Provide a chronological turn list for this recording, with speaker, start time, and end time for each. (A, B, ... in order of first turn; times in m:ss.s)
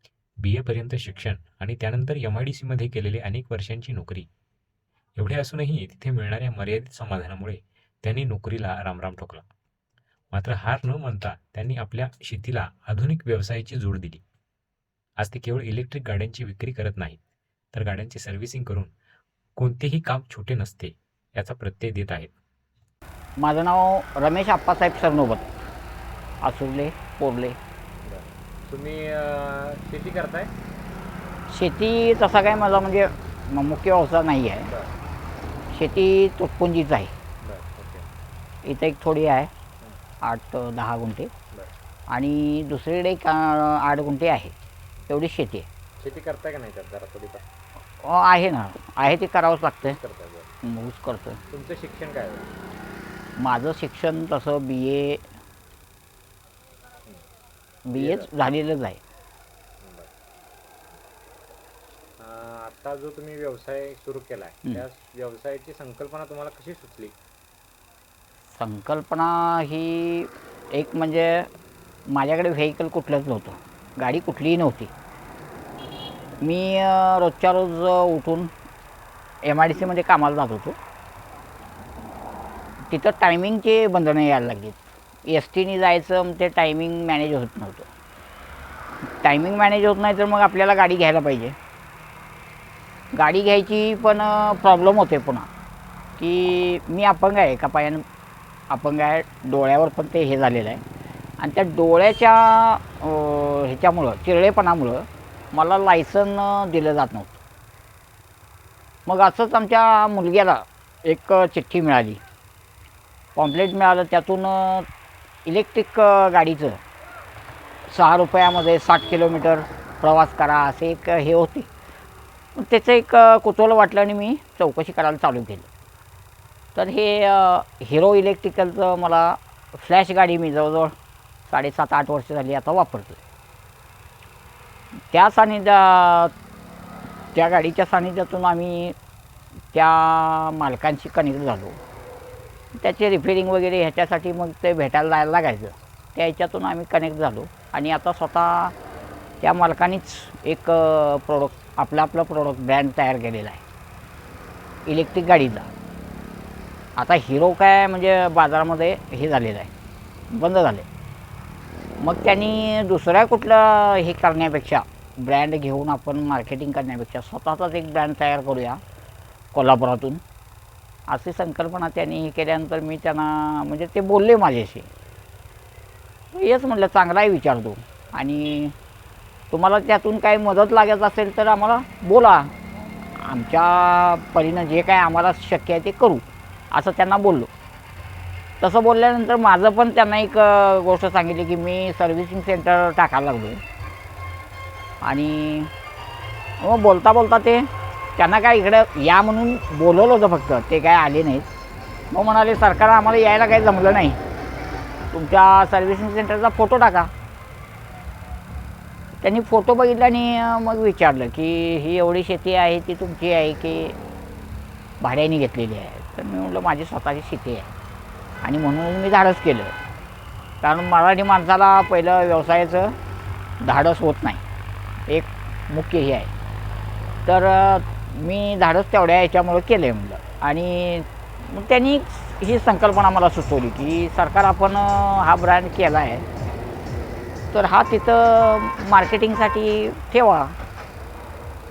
0:00.4-0:04.3 A
0:05.2-0:09.4 A
0:10.3-0:14.2 A
0:15.2-0:17.2 A
0:17.7-0:18.9 A
0:19.6-0:22.3 A
0:23.4-0:25.5 B
0:26.4-0:27.6 B
0:28.0-0:30.5 C
0:31.5-0:34.7 B
0:34.7-0:34.9 C
0:35.7-0:37.1 B
0:37.4-0:38.1 C
0:38.6-0:39.5 B
0:40.2-0:41.3 B
0:42.1-0:44.6 B
0:45.1-0:45.7 B
0:46.0-0:47.5 C
0:48.0-0:50.0 B
0:49.8-0:50.5 C
0:50.6-0:51.4 B
0:51.5-0:52.5 C
0:53.4-0:55.2 B
0:57.9-0:59.0 B
0:58.0-0:58.3 C
0:59.8-1:00.1 C
1:02.2-1:07.2 C
1:08.5-1:11.5 B
1:12.1-1:14.9 B
1:16.4-1:18.5 B
1:19.4-1:20.8 B
1:22.9-1:27.9 B
1:29.2-1:31.6 B
1:33.1-1:35.5 B
1:36.2-1:38.0 B
1:38.7-1:40.8 B
1:41.4-1:47.4 B
1:49.1-1:52.2 B
1:53.4-1:54.9 B
1:55.4-1:56.8 B
1:57.9-2:01.7 B
2:02.6-2:05.7 B
2:06.8-2:10.9 B
2:11.5-2:13.2 B
2:15.1-2:16.3 B
2:17.3-2:19.0 B
2:19.7-2:21.8 B
2:22.8-2:28.8 B
2:29.4-2:33.6 B
2:34.9-2:35.7 B
2:37.0-2:39.7 B
2:40.3-2:40.9 B
2:42.0-2:48.8 B
2:49.5-2:50.2 B
2:51.1-2:54.9 B
2:56.3-2:58.7 B
2:59.5-3:02.5 B
3:03.2-3:07.5 B
3:08.6-3:13.6 B
3:15.0-3:15.7 B
3:16.6-3:21.5 B
3:22.1-3:24.2 B
3:25.1-3:27.1 B
3:29.2-3:34.0 B
3:35.0-3:37.7 B
3:38.4-3:39.7 B
3:40.6-3:43.0 B
3:43.6-3:44.4 B
3:45.1-3:46.3 B
3:47.3-3:56.3 B
3:57.5-4:00.6 B